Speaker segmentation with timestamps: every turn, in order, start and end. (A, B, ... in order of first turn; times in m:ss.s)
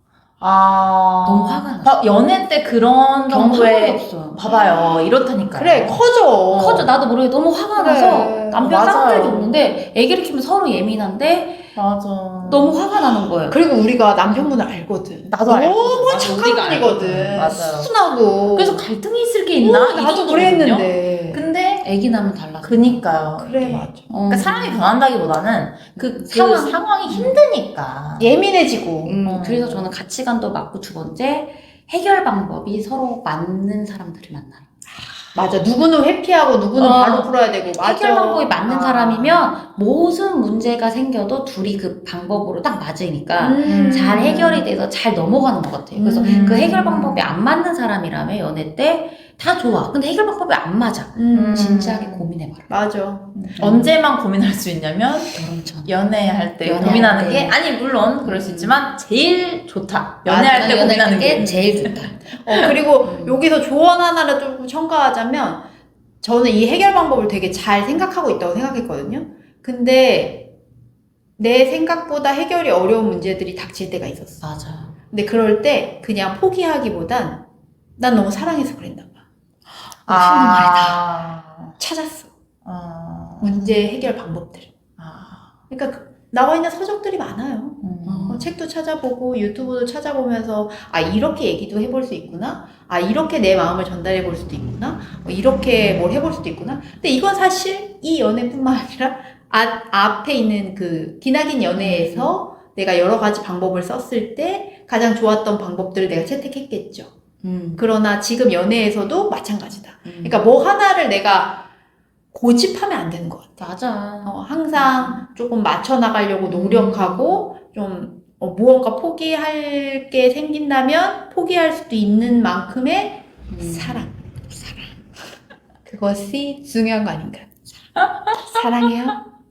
0:00.4-0:06.9 A
0:01.2-0:02.0 B
0:03.3-0:04.4 B
0:05.5-0:06.9 C
0:06.5-0:11.7 B
0:07.8-0:08.7 C
0:08.6-0:09.8 A
0:11.8-0:12.8 A
0:12.5-0:13.6 B
0:13.5-0:18.8 C
0:14.3-0:14.6 B
0:15.3-0:17.9 A
0:16.1-0:17.5 B
0:18.6-0:21.9 A
0:19.6-0:21.4 C
0:21.8-0:23.0 B
0:22.6-0:28.3 A
0:23.4-0:24.0 C
0:24.1-0:24.9 B
0:26.0-0:27.4 B
0:28.2-0:29.2 C
0:29.0-0:34.7 B
0:29.2-0:29.9 A
0:35.4-0:39.5 C
0:36.8-0:52.7 B
0:43.4-0:44.6 C
0:43.6-0:44.6 A
0:45.9-0:46.9 C
0:46.2-0:47.2 A
0:51.2-0:51.6 C
0:51.3-0:52.3 A
0:52.7-0:53.9 C
0:53.4-1:02.7 A
0:55.3-0:55.9 B
0:56.6-0:57.6 B
0:58.2-0:58.8 B
1:00.3-1:05.6 C
1:00.5-1:02.3 B
1:03.0-1:03.4 B
1:06.2-1:10.5 C
1:11.4-1:14.4 C
1:14.4-1:14.9 B
1:15.1-1:17.4 C
1:18.0-1:19.1 C
1:20.0-1:21.0 B
1:20.1-1:21.8 A
1:21.8-1:22.3 C
1:22.6-1:23.5 A
1:23.4-1:24.7 C
1:25.0-1:25.5 A
1:25.7-1:47.1 C
1:27.8-1:28.4 A
1:28.0-1:28.5 B
1:41.8-1:42.4 B
1:47.4-1:47.8 B
1:47.8-1:51.6 C
1:50.0-1:50.4 B
1:52.3-1:53.6 C
1:53.6-1:55.2 B
1:54.2-2:04.1 C
1:56.5-1:57.4 B
2:03.5-2:04.9 B
2:05.9-2:07.5 C
2:08.3-2:09.2 C